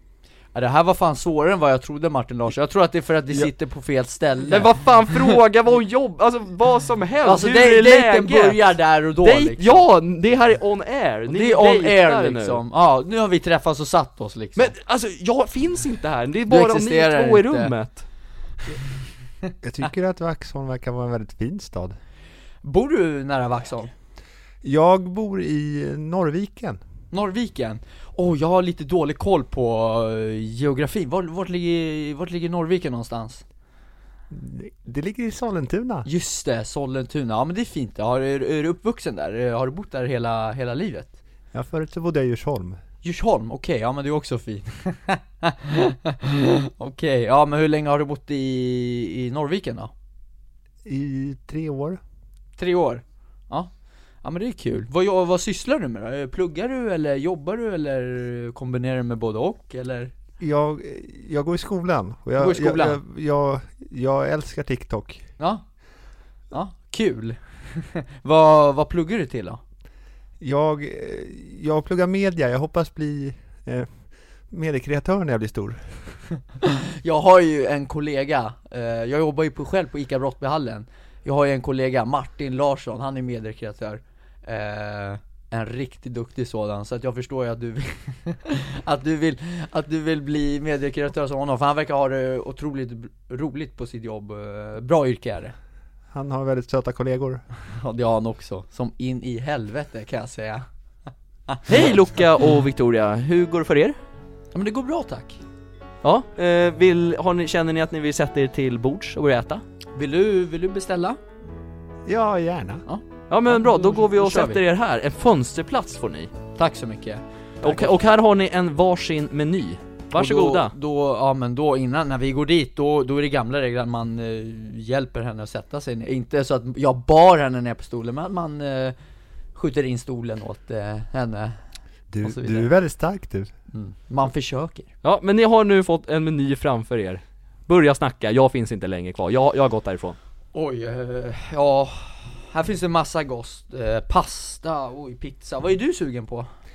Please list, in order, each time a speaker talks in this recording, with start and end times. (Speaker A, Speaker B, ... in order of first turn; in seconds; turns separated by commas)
Speaker A: 0.5-4.7, Speaker B: 4.5-12.6, Speaker A: 7.2-9.8, Speaker A: 11.3-14.7, Speaker B: 14.6-18.0, Speaker A: 16.5-17.7, Speaker C: 19.6-21.9, Speaker A: 22.6-23.9, Speaker C: 24.6-26.8, Speaker A: 27.1-33.4, Speaker C: 34.3-36.1, Speaker A: 36.0-41.1, Speaker C: 41.5-42.8, Speaker A: 43.0-49.9, Speaker C: 50.8-52.0, Speaker A: 52.6-53.7, Speaker A: 54.2-60.1, Speaker C: 60.4-65.2, Speaker A: 62.4-63.0, Speaker A: 66.5-69.6, Speaker C: 70.4-73.9, Speaker C: 74.5-76.0, Speaker A: 76.6-95.5, Speaker C: 96.1-97.4, Speaker A: 97.8-100.7, Speaker B: 101.7-104.0, Speaker A: 104.5-105.4, Speaker B: 106.0-109.6, Speaker A: 110.0-111.2, Speaker C: 112.0-112.8, Speaker A: 112.9-114.6, Speaker B: 113.3-116.3, Speaker A: 116.5-117.9, Speaker B: 117.6-120.7, Speaker A: 120.1-128.9, Speaker A: 129.5-131.6, Speaker C: 132.1-133.5, Speaker A: 132.2-132.7, Speaker A: 133.7-134.9, Speaker B: 135.0-140.2, Speaker A: 140.5-146.5